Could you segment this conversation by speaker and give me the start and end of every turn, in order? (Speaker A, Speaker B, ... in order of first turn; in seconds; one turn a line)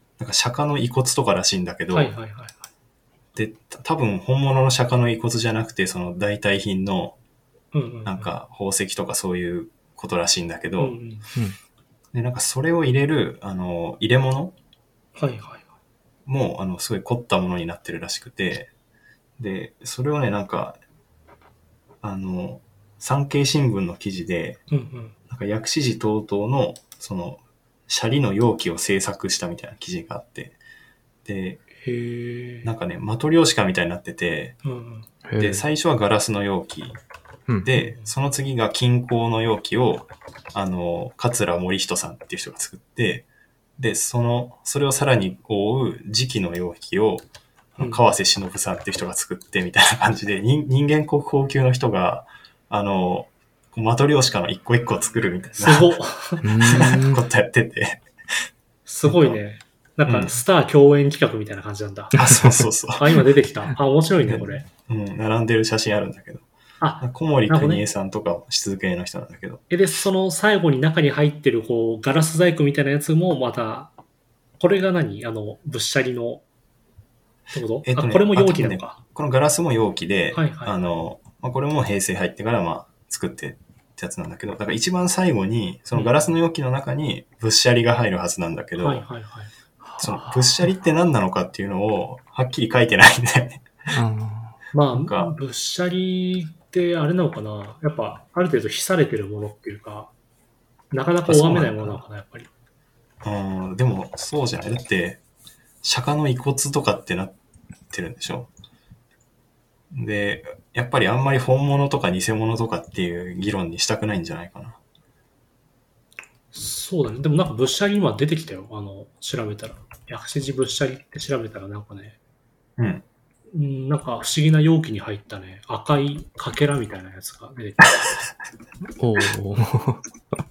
Speaker A: 0.2-2.1
Speaker B: 1.9-2.6
Speaker A: 3.3-7.2
Speaker B: 7.7-8.3
Speaker A: 8.0-11.0
Speaker B: 10.8-11.3
Speaker A: 12.1-14.5
Speaker B: 15.2-15.7
Speaker A: 16.2-18.7
Speaker A: 19.4-20.8
Speaker A: 22.0-24.6
Speaker B: 24.7-25.1
Speaker A: 25.3-30.6
Speaker A: 31.2-31.6
Speaker B: 31.8-32.7
Speaker A: 32.6-34.6
Speaker B: 34.6-35.1
Speaker C: 35.2-35.6
Speaker A: 35.4-37.0
Speaker A: 37.6-43.2
Speaker B: 37.7-38.1
Speaker A: 43.8-47.2
Speaker A: 47.8-55.9
Speaker B: 55.6-56.7
Speaker C: 56.4-57.2
Speaker A: 56.6-58.0
Speaker B: 58.9-62.2
Speaker A: 59.0-59.4
Speaker A: 60.0-60.3
Speaker A: 62.1-63.1
Speaker B: 63.0-64.7
Speaker A: 64.2-66.5
Speaker B: 66.8-67.8
Speaker A: 67.0-69.6
Speaker B: 69.7-73.9
Speaker B: 74.6-76.4
Speaker B: 77.5-79.0
Speaker A: 77.8-89.0
Speaker B: 80.3-80.8
Speaker B: 88.8-89.5
Speaker C: 89.8-90.2
Speaker A: 90.0-94.0
Speaker B: 90.0-90.3
Speaker C: 93.9-94.5
Speaker B: 94.7-100.1
Speaker A: 94.9-95.3
Speaker B: 100.9-102.5
Speaker A: 101.2-102.0
Speaker A: 103.2-105.2
Speaker A: 105.8-107.4
Speaker A: 107.9-108.5
Speaker A: 109.9-114.8
Speaker B: 116.5-122.2
Speaker A: 122.8-123.0
Speaker B: 123.5-128.2
Speaker C: 129.0-130.0